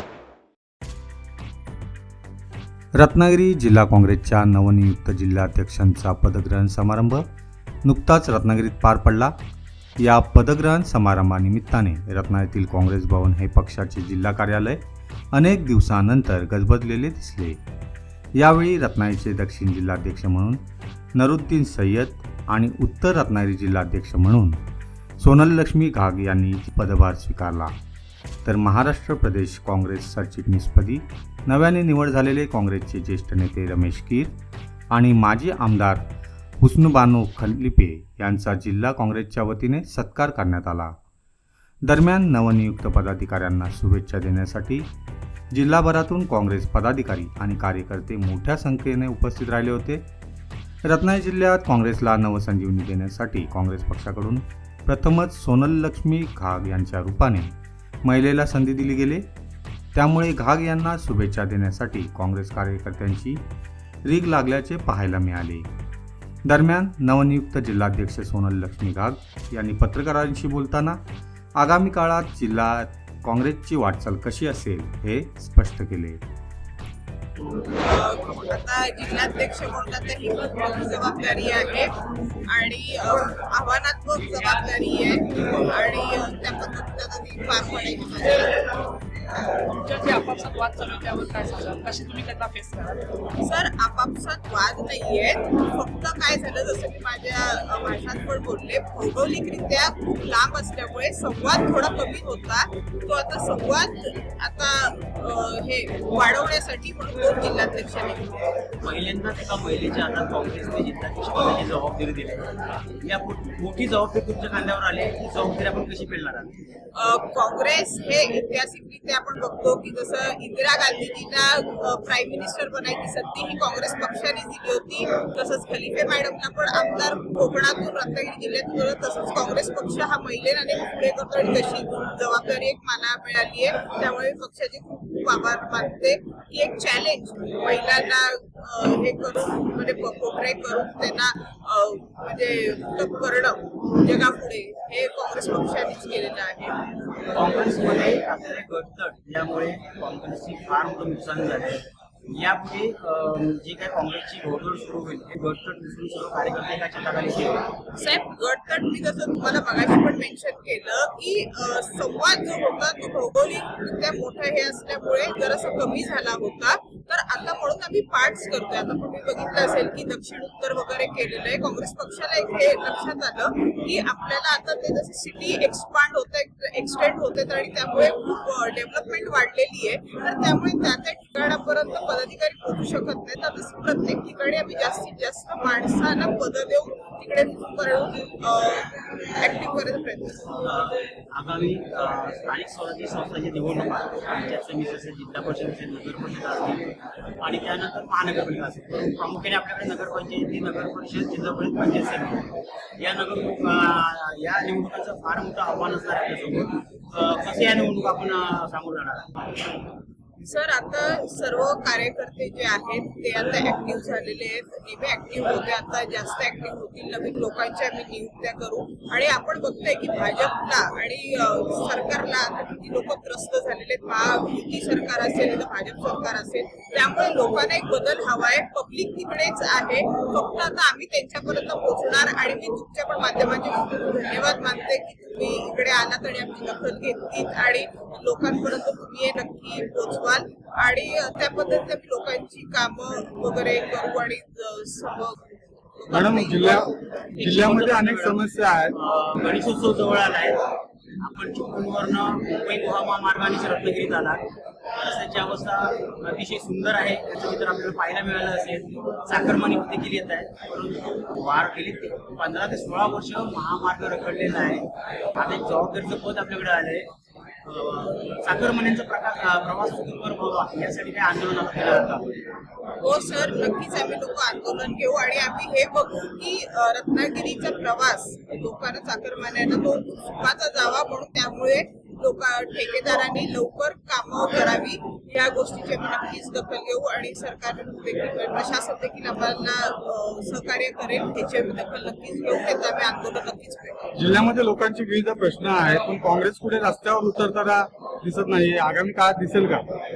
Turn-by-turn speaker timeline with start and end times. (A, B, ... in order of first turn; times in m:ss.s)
0:03.0-0:07.2 A
0:07.8-0:09.3 A
0:10.0-0:14.8 A
0:15.3-0:17.6 A
0:18.4-0:20.6 A
0:21.2-0:24.6 A
0:25.2-0:27.7 A
0:28.4-0:34.3 A
0:34.9-0:36.0 A
0:36.6-0:40.9 A
0:41.8-0:44.9 A
0:45.5-0:50.0 A
0:50.9-0:59.2 A
1:00.0-1:03.4 A
1:04.1-1:05.7 A
1:06.5-1:11.0 A
1:11.6-1:16.2 A
1:17.8-1:21.9 B
1:22.5-1:28.7 B
1:29.8-1:33.0 C
1:33.4-1:48.3 B
1:48.8-1:52.5 D
1:53.0-1:56.5 D
1:57.0-2:26.8 B
2:27.3-2:37.6 D
2:37.9-3:10.4 B
3:10.7-3:16.9 D
3:17.4-3:22.4 D
3:23.0-3:29.3 D
3:30.4-4:05.4 B
4:06.0-4:06.8 B
4:06.1-4:08.9 E
4:07.4-4:10.6 D
4:11.2-4:14.4 D
4:15.0-4:27.1 D
4:27.7-4:32.2 D
4:33.0-4:54.0 B
4:54.2-4:59.8 E